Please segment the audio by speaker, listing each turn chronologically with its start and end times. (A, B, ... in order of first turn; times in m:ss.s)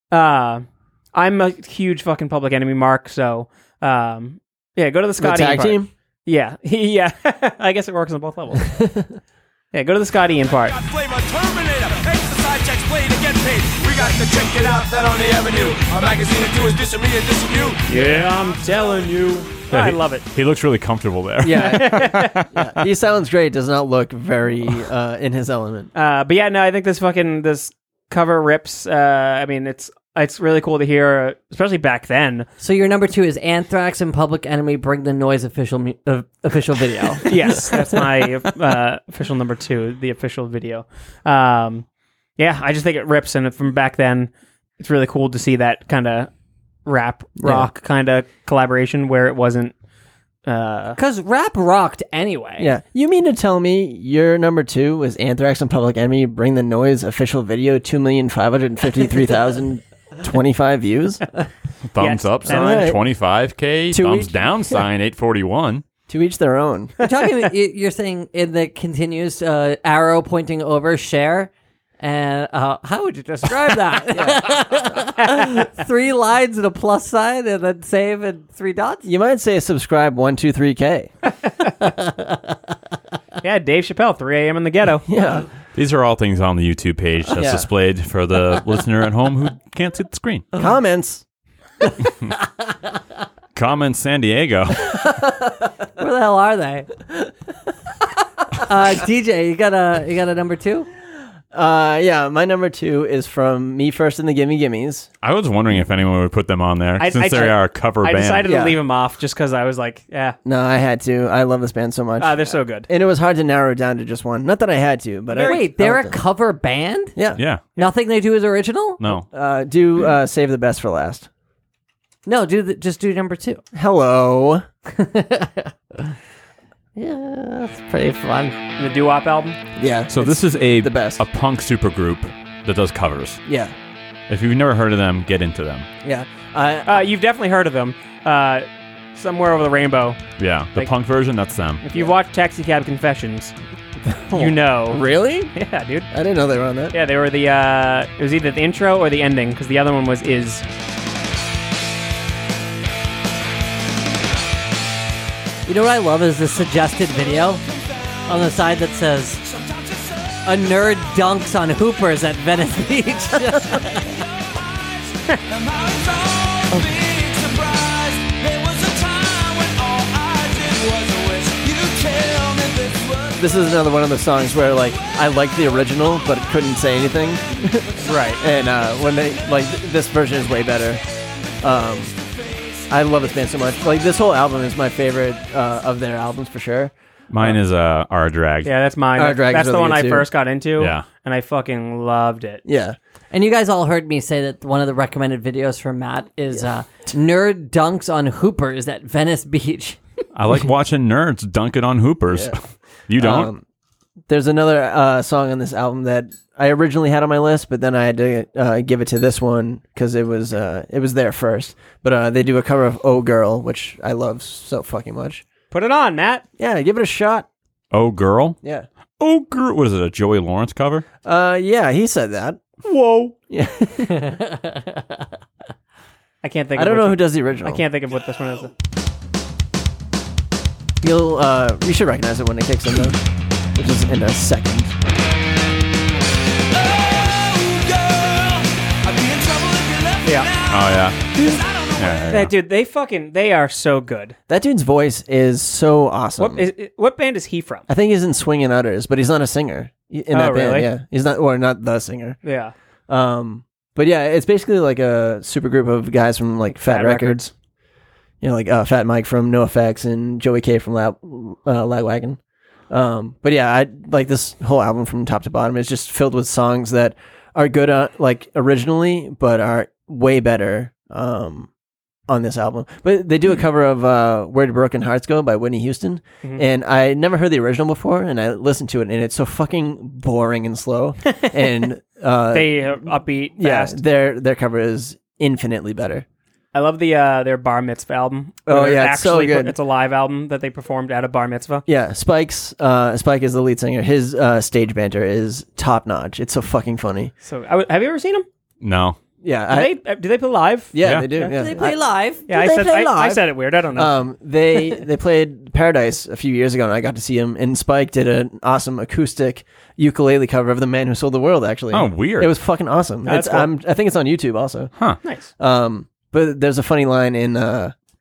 0:00.1-0:08.7 A
0:05.2-0:05.9 B
0:08.7-0:09.1 B
0:09.7-0:10.8 A
0:10.8-0:17.9 C
0:17.9-0:20.2 A
0:19.7-0:22.5 D
0:21.4-0:25.9 B
0:21.6-0:22.4 A
0:25.9-0:32.5 A
0:32.6-0:37.6 E
0:37.3-0:41.8 A
0:42.4-0:46.3 A
0:46.9-0:49.7 A
0:47.4-0:47.7 B
0:50.4-0:51.0 A
0:51.0-0:52.7 E
0:52.6-1:01.3 B
1:01.9-1:05.8 D
1:02.0-1:02.9 A
1:02.5-1:03.0 B
1:03.9-1:04.8 B
1:06.1-1:06.9 B
1:07.0-1:19.1 E
1:14.1-1:14.7 B
1:19.0-1:21.1 B
1:23.4-1:25.1 A
1:25.1-1:25.5 B
1:25.8-1:30.5 D
1:27.3-1:27.7 B
1:30.6-1:31.2 B
1:33.6-1:35.0 D
1:36.0-1:36.9 E
1:38.6-1:40.9 E
1:41.5-1:45.1 B
1:45.2-1:48.5 D
1:47.0-1:50.4 A
1:48.4-1:48.8 B
1:50.4-1:56.2 B
1:52.2-1:52.9 A
1:55.3-1:55.6 A
1:55.4-1:57.2 E
1:57.2-1:57.4 B
1:57.4-1:57.6 D
1:57.8-1:59.0 E
1:59.0-1:59.3 D
1:59.3-2:01.3 B
2:02.3-2:03.6 E
2:03.7-2:04.6 B
2:04.9-2:06.1 E
2:07.0-2:08.6 E
2:08.8-2:09.6 A
2:09.8-2:11.2 B
2:10.1-2:13.4 D
2:13.5-2:13.8 B
2:14.3-2:15.9 D
2:16.0-2:17.1 B
2:16.9-2:20.2 A
2:20.4-2:21.8 D
2:21.8-2:23.6 A
2:24.1-2:25.5 B
2:24.3-2:25.0 A
2:25.6-2:26.1 A
2:26.1-2:27.0 B
2:26.9-2:30.6 A
2:35.7-2:37.6 E
2:38.3-2:39.4 E
2:39.6-2:40.2 C
2:40.4-2:44.1 E
2:44.1-2:53.6 C
2:53.4-3:01.0 B
2:58.0-2:58.4 A
3:01.6-3:02.1 B
3:02.9-3:07.6 B
3:07.3-3:08.7 D
3:08.6-3:12.6 A
3:09.1-3:10.3 B
3:10.8-3:11.0 D
3:12.6-3:13.0 B
3:13.3-3:20.0 E
3:20.3-3:23.5 D
3:23.2-3:23.6 B
3:24.3-3:35.4 B
3:35.7-3:36.4 A
3:36.6-3:37.5 B
3:37.9-3:38.6 D
3:38.6-3:38.9 B
3:39.2-3:41.0 D
3:41.2-3:42.6 B
3:42.8-3:43.3 A
3:43.5-3:44.4 B
3:44.2-3:45.0 E
3:46.4-3:48.7 A
3:46.8-3:47.8 B
3:51.0-3:53.2 B
3:53.8-3:55.0 B
3:56.9-4:01.0 C
4:00.2-4:00.5 A
4:00.7-4:01.4 D
4:01.5-4:02.2 C
4:02.0-4:02.5 D
4:02.3-4:04.4 A
4:04.5-4:06.7 B
4:06.4-4:07.9 A
4:07.9-4:12.4 B
4:10.3-4:10.9 A
4:12.4-4:12.7 A
4:13.1-4:17.5 B
4:16.8-4:17.5 A
4:18.4-4:22.4 B
4:22.9-4:31.7 B
4:32.3-4:46.2 B
4:42.5-4:44.0 A
4:46.7-4:51.8 A
4:48.7-4:49.8 B
4:51.9-4:57.3 B
4:57.4-4:58.5 A
4:58.8-4:59.2 D
4:59.4-5:00.0 B
4:59.7-5:01.6 A
5:00.9-5:14.9 B
5:01.0-5:01.3 D
5:01.5-5:02.5 E
5:02.5-5:04.1 A
5:11.9-5:12.5 D
5:13.3-5:13.7 A
5:15.2-5:15.5 A
5:15.6-5:17.9 B